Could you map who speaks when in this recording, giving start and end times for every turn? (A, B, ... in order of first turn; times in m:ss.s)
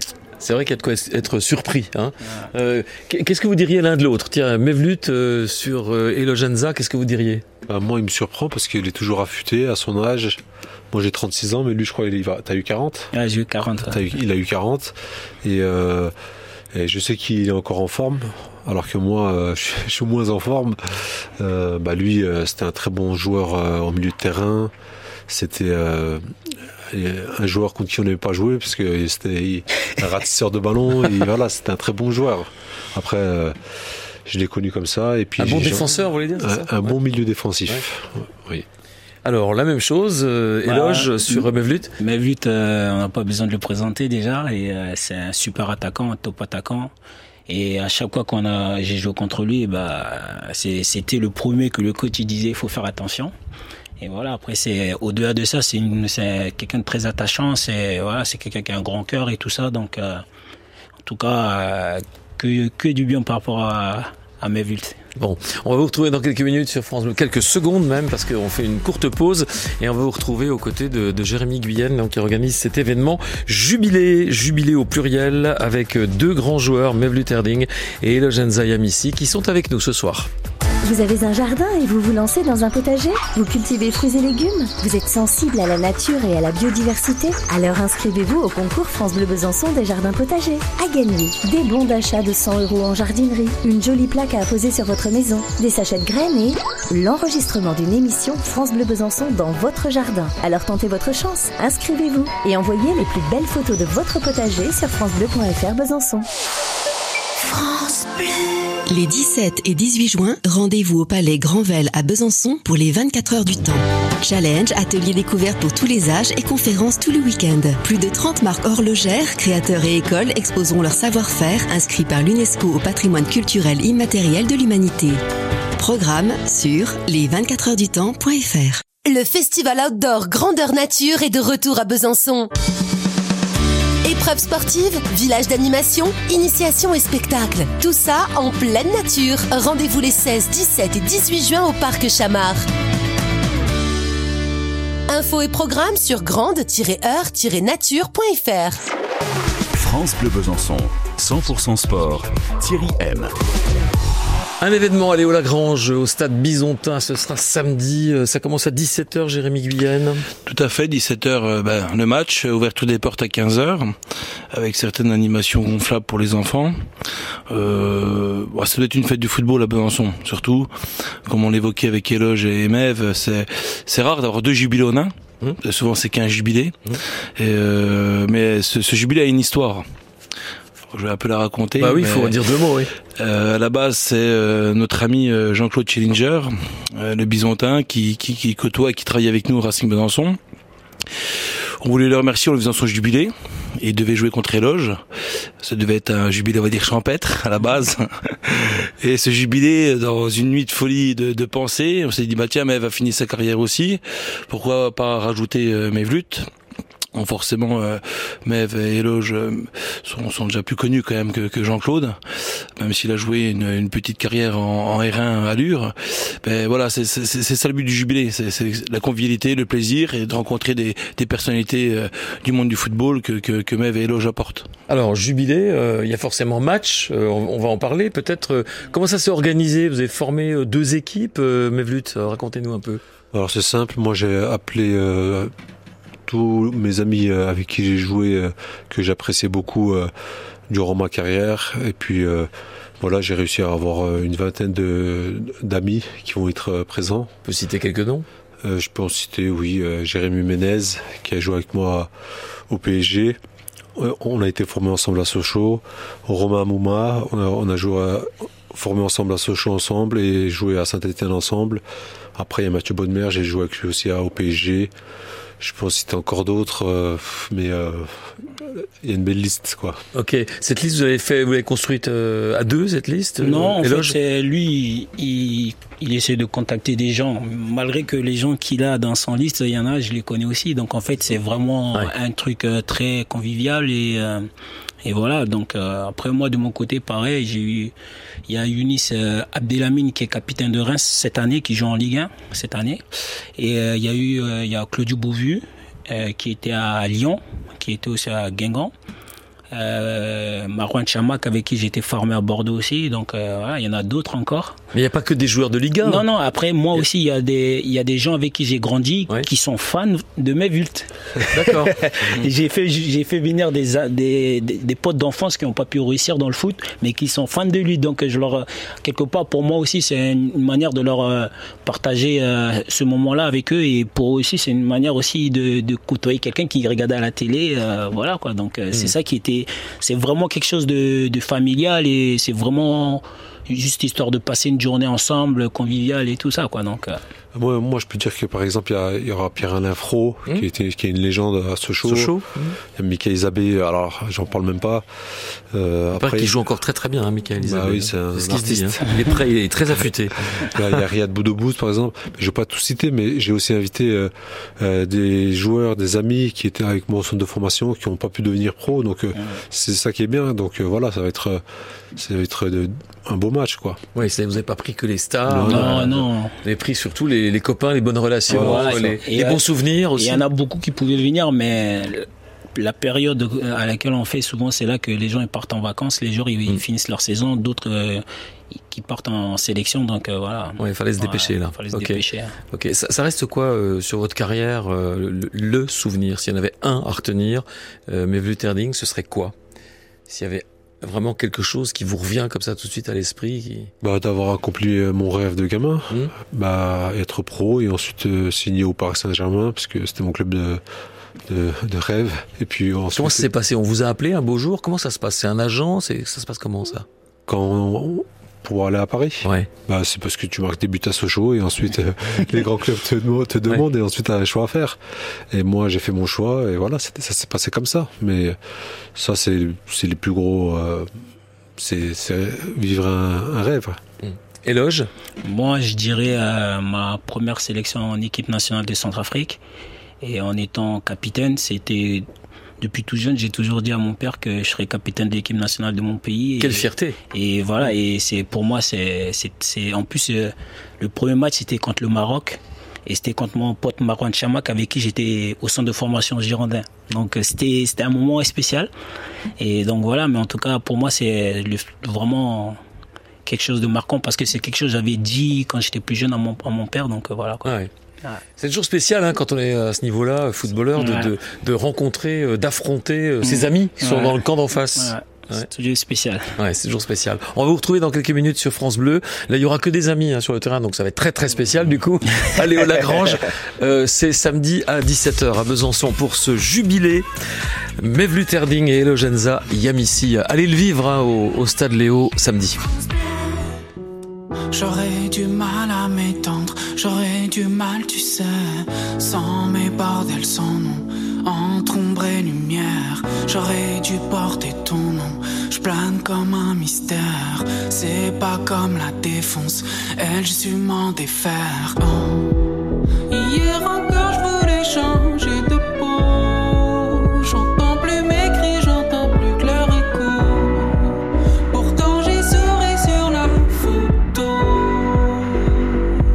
0:00.4-0:07.4 A
0:07.7-0:10.4 B
0:10.9-0:13.1 B
0:13.1-0:14.0 C
0:13.8-0:16.1 B
0:16.7-0:20.8 B
0:21.4-0:24.7 B
0:25.3-0:26.2 B
0:26.9-0:33.6 B
0:34.3-0:38.6 B
0:35.4-0:37.0 A
0:39.2-0:41.9 A
0:40.7-0:41.5 C
0:42.0-0:46.9 C
0:47.5-0:53.3 C
0:54.0-1:00.2 C
1:01.0-1:05.0 C
1:05.2-1:20.3 A
1:20.8-1:46.3 D
1:47.4-1:48.3 E
1:48.9-2:05.2 F
2:05.8-2:08.8 F
2:09.0-2:12.5 E
2:14.0-2:22.6 E
2:25.1-2:28.8 E
2:29.8-2:33.3 G
2:34.6-2:40.3 A
2:40.5-2:44.0 H
2:44.5-2:46.8 H
2:47.5-2:50.7 H
2:51.3-2:55.1 H
2:55.6-2:56.8 H
2:57.4-2:59.8 H
3:00.9-3:02.4 H
3:01.8-3:02.9 A
3:03.2-3:10.4 H
3:11.8-3:15.0 H
3:15.6-3:26.5 H
3:27.1-3:32.2 H
3:32.8-3:44.7 H
3:44.9-3:53.0 A
3:53.3-3:55.5 B
3:56.3-4:00.1 B
4:00.7-4:02.5 B
4:03.0-4:07.3 B
4:07.4-4:08.3 A
4:08.6-4:12.1 B
4:12.7-4:13.4 B
4:14.0-4:21.8 B
4:22.4-4:24.9 B
4:25.6-4:30.0 B
4:30.1-4:34.2 A
4:33.4-4:44.5 C
4:45.0-4:47.9 C
4:48.5-4:53.0 C
4:53.6-4:58.9 C
4:59.7-5:04.8 C
5:04.9-5:06.2 A
5:06.0-5:37.2 C
5:11.5-5:11.9 A
5:37.6-5:42.4 B
5:42.0-5:42.8 A
5:43.0-5:45.0 B
5:45.7-5:46.6 B
5:46.2-5:50.8 A
5:47.6-5:49.0 B
5:50.6-6:01.6 B
6:02.2-6:04.0 B
6:04.1-6:10.4 A
6:05.5-6:06.1 B
6:05.7-6:06.6 C
6:08.5-6:09.0 B
6:08.5-6:18.2 C
6:18.9-6:22.6 C
6:20.8-6:29.5 A
6:30.3-6:33.9 A
6:34.0-6:40.8 B
6:41.5-6:43.5 B
6:43.1-6:47.1 A
6:47.5-6:55.0 B
6:49.4-6:49.7 A
6:55.5-6:58.6 B
6:59.2-7:01.1 B
7:01.8-7:04.0 B
7:04.2-7:05.1 A
7:05.4-7:09.6 C
7:10.2-7:12.2 C
7:12.8-7:28.9 C
7:16.6-7:17.2 A
7:29.6-7:32.8 C
7:33.5-7:37.7 C
7:37.6-7:37.9 A
7:38.6-7:45.7 A
7:41.0-7:41.3 C
7:43.4-7:46.4 C
7:46.6-7:57.2 A
7:58.0-8:02.8 A
8:04.7-8:22.6 I
8:23.3-8:31.1 I
8:31.7-8:35.9 I